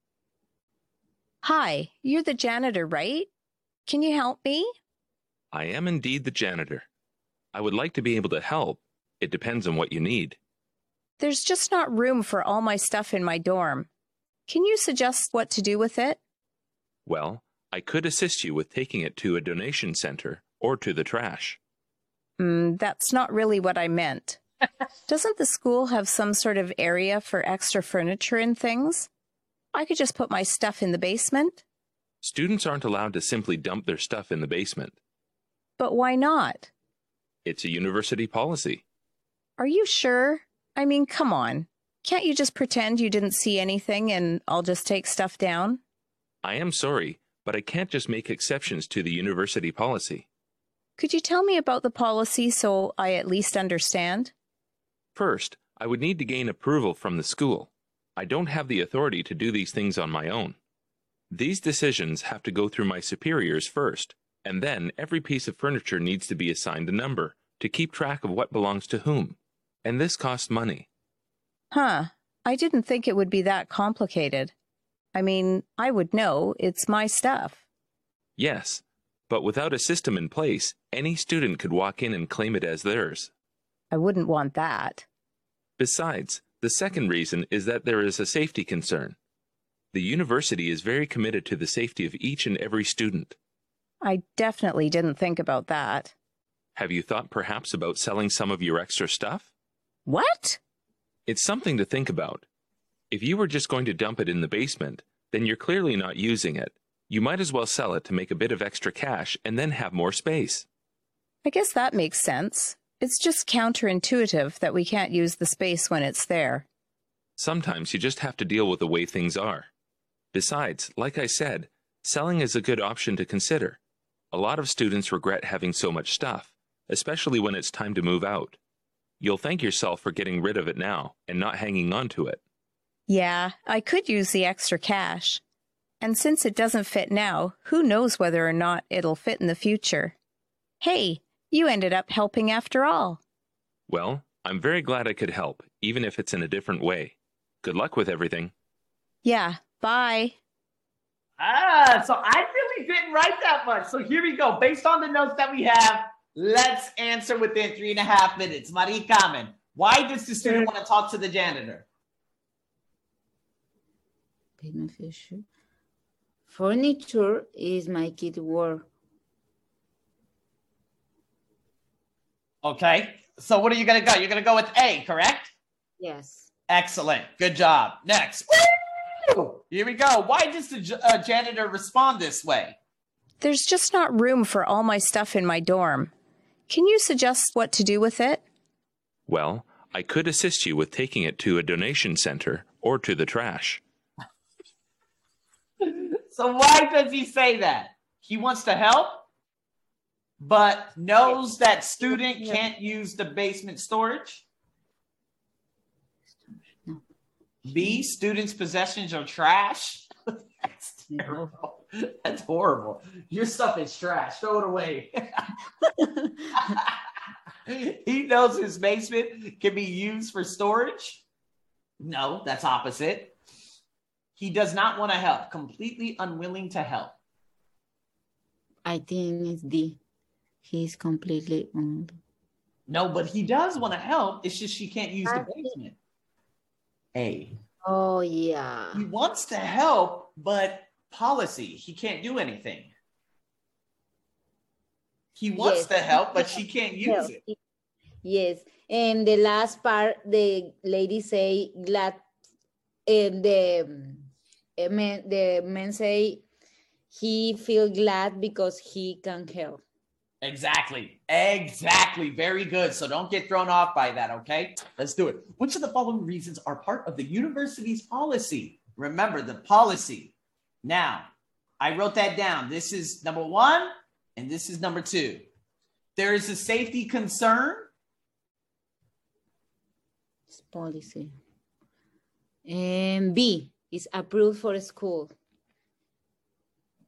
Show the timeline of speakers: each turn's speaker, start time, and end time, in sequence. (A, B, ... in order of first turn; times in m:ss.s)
0:01.4-0:03.3 A
0:03.8-0:04.7 A
0:05.5-0:06.8 B
0:07.5-0:10.4 B
0:11.2-0:13.9 A
0:14.5-0:16.2 A
0:17.0-0:21.6 B
0:22.4-0:24.4 A
0:25.1-0:29.1 A
0:29.7-0:31.6 A
0:32.2-0:35.0 B
0:35.8-0:36.7 A
0:37.4-0:38.8 B
0:39.6-0:45.8 A
0:46.4-0:50.3 B
0:51.0-0:54.3 A
0:55.1-1:00.6 B
1:01.3-1:10.9 B
1:11.7-1:14.5 A
1:15.1-1:17.6 A
1:18.4-1:23.3 B
1:23.9-1:25.0 A
1:25.8-1:29.2 B
1:29.9-1:33.4 B
1:34.0-1:36.1 A
1:36.7-1:39.5 B
1:40.0-1:40.6 A
1:41.2-1:42.4 B
1:43.1-1:50.7 B
1:51.4-1:56.7 A
1:57.4-1:59.7 B
2:00.3-2:03.8 B
2:04.3-2:08.6 B
2:09.2-2:12.4 B
2:13.1-2:15.4 A
2:16.0-2:20.2 A
2:20.8-2:23.2 A
2:23.9-2:28.5 B
2:29.2-2:30.4 A
2:31.4-2:41.8 C
2:40.4-2:40.7 D
2:44.6-2:45.4 D
2:46.5-2:48.9 D
2:52.6-2:55.5 C
2:56.0-2:56.5 D
2:56.7-3:02.8 C
3:03.4-3:06.1 A
3:06.7-3:08.4 A
3:09.3-3:13.8 B
3:15.8-3:19.2 C
3:20.4-3:24.4 C
3:22.0-3:22.6 D
3:27.6-3:30.1 C
3:27.8-3:28.0 D
3:30.6-3:35.5 C
3:31.1-3:31.5 D
3:35.8-3:36.5 D
3:36.6-3:36.9 C
3:37.7-3:41.2 C
3:42.0-3:43.4 C
3:44.4-3:47.2 C
3:48.8-3:50.0 D
3:50.6-3:52.2 D
3:52.9-3:56.0 C
3:55.2-3:55.7 D
3:57.1-3:57.5 C
3:57.8-3:59.0 D
3:58.9-4:02.9 C
4:05.3-4:07.4 C
4:05.6-4:07.6 D
4:08.2-4:12.2 D
4:13.0-4:16.4 D
4:17.1-4:19.8 D
4:20.4-4:35.4 C
4:36.2-4:37.9 C
4:40.5-4:41.3 D
4:42.6-4:45.3 D